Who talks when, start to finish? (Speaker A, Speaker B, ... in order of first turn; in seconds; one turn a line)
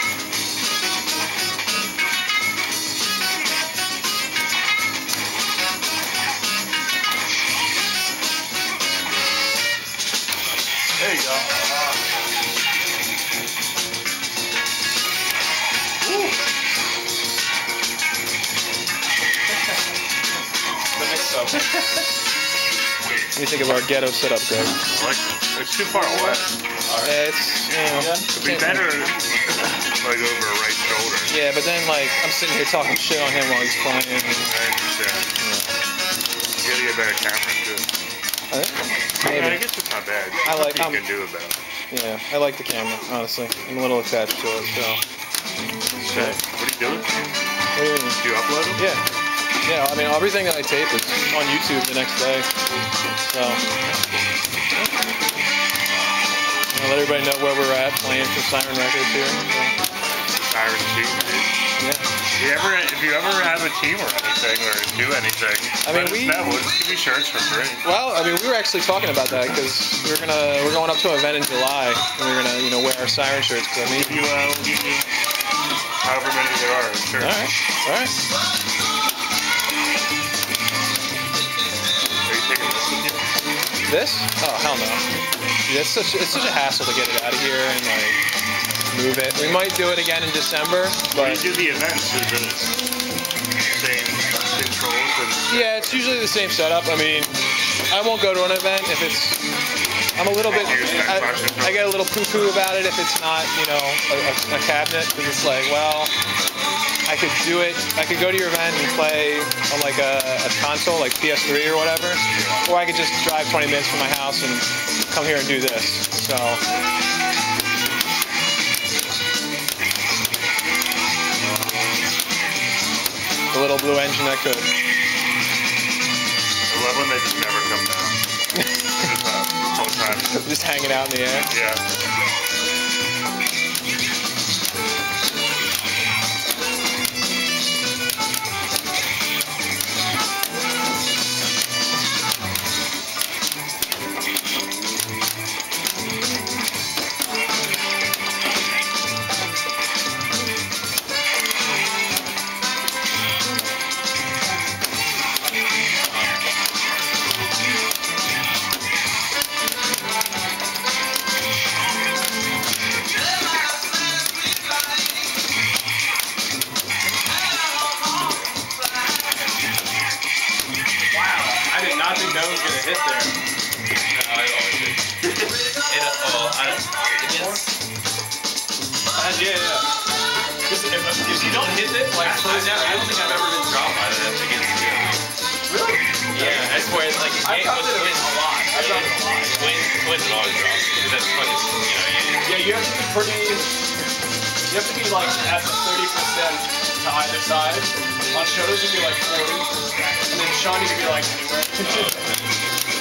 Speaker A: 11.0-11.7
Speaker A: 16.0-16.4
Speaker B: 20.9-21.7
Speaker B: 23.4-24.8
Speaker C: 24.9-26.5
Speaker A: 25.9-26.5
Speaker D: 26.9-27.1
Speaker B: 27.0-28.8
Speaker A: 27.9-28.3
Speaker C: 28.3-29.3
Speaker C: 29.9-31.4
Speaker B: 31.3-34.4
Speaker C: 34.3-35.3
Speaker B: 35.4-35.7
Speaker C: 36.6-37.9
Speaker B: 38.5-39.7
Speaker C: 39.2-41.6
Speaker B: 40.4-41.1
Speaker B: 41.9-45.0
Speaker B: 46.0-46.4
Speaker C: 46.1-47.1
Speaker B: 47.8-48.2
Speaker C: 48.2-48.8
Speaker B: 48.8-49.0
Speaker B: 49.6-52.5
Speaker B: 53.3-53.6
Speaker C: 53.8-54.3
Speaker B: 56.7-59.8
Speaker C: 60.3-61.5
Speaker B: 61.8-62.1
Speaker C: 62.3-67.8
Speaker B: 65.8-66.4
Speaker B: 67.8-74.2
Speaker C: 73.8-75.0
Speaker C: 76.0-77.4
Speaker B: 77.2-78.2
Speaker C: 82.2-83.2
Speaker B: 83.9-85.0
Speaker B: 85.6-88.2
Speaker B: 88.9-91.5
Speaker C: 91.1-92.7
Speaker C: 93.7-96.2
Speaker B: 95.5-99.5
Speaker B: 100.2-106.1
Speaker C: 100.5-101.9
Speaker A: 100.7-101.0
Speaker B: 107.0-116.6
Speaker C: 112.3-112.8
Speaker C: 121.4-122.0
Speaker B: 123.5-124.7
Speaker C: 126.7-128.2
Speaker C: 129.0-130.5
Speaker B: 130.3-131.5
Speaker C: 131.5-131.8
Speaker A: 171.1-173.3
Speaker D: 174.1-177.7
Speaker A: 175.3-175.6
Speaker A: 177.2-177.7
Speaker A: 179.1-179.9
Speaker A: 180.7-183.9
Speaker D: 182.0-185.2
Speaker A: 185.7-189.9
Speaker D: 186.3-192.6
Speaker A: 192.4-193.8
Speaker A: 194.7-202.2
Speaker D: 200.0-200.2
Speaker D: 201.8-202.6